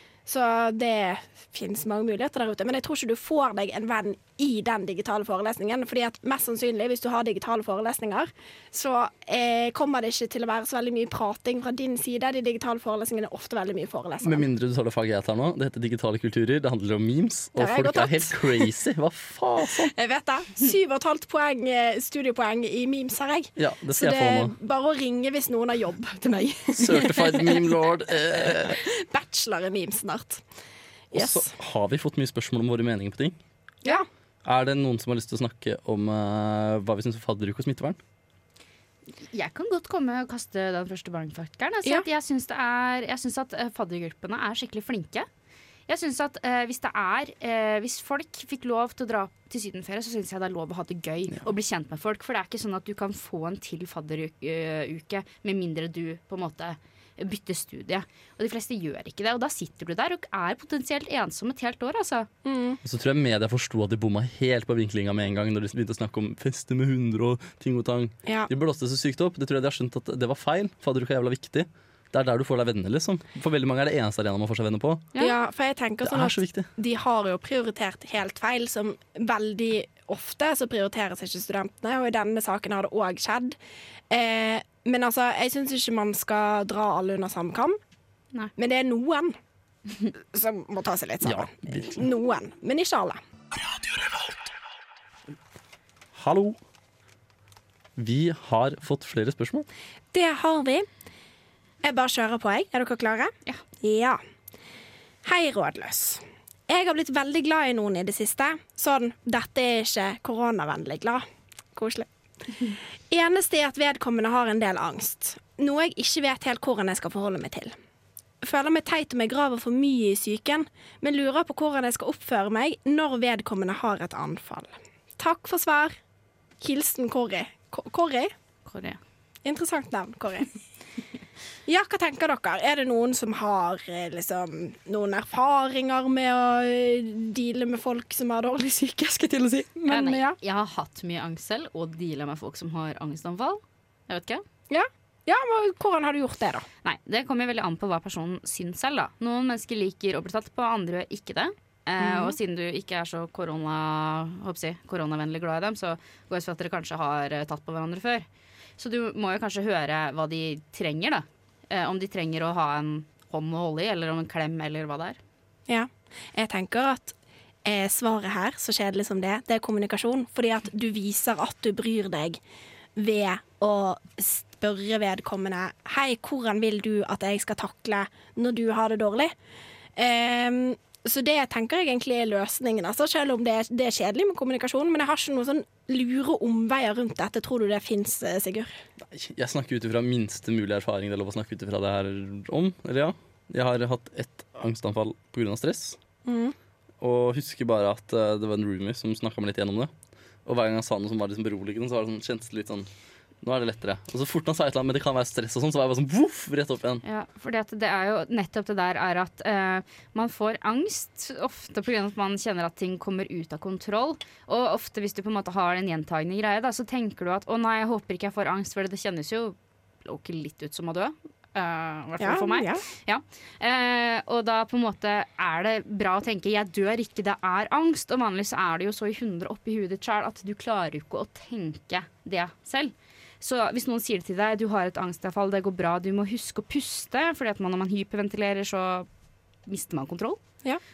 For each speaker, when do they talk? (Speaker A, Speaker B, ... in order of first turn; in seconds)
Speaker A: 0.2-14.4, 17.6-18.6, 19.8-27.8, 28.3-30.4, 31.1-31.5, 62.4-62.8, 75.2-83.6, 84.1-87.8, 88.6-89.4, 90.1-93.2, 100.1-100.9, 101.8-104.2, 105.2-112.1, 112.6-117.7, 118.4-125.9, 126.6-128.3, 129.4-130.5, 131.7-140.4, 144.7-146.7, 152.0-152.3, 165.7-172.4, 172.9-179.3, 179.9-188.7, 196.2-196.5, 222.2-222.8
Speaker B: 14.2-19.9, 23.6-24.5, 26.7-28.8, 31.1-33.4, 34.4-38.0, 62.8-75.1, 76.0-76.7, 91.2-92.0, 96.1-96.6, 98.0-99.7, 189.0-196.0, 197.0-199.9, 200.4-202.9, 203.4-207.0
Speaker C: 39.2-45.3, 45.9-62.3, 128.7-129.0, 139.9-144.4, 146.8-158.3, 158.8-165.2, 207.0-239.1, 239.7-240.4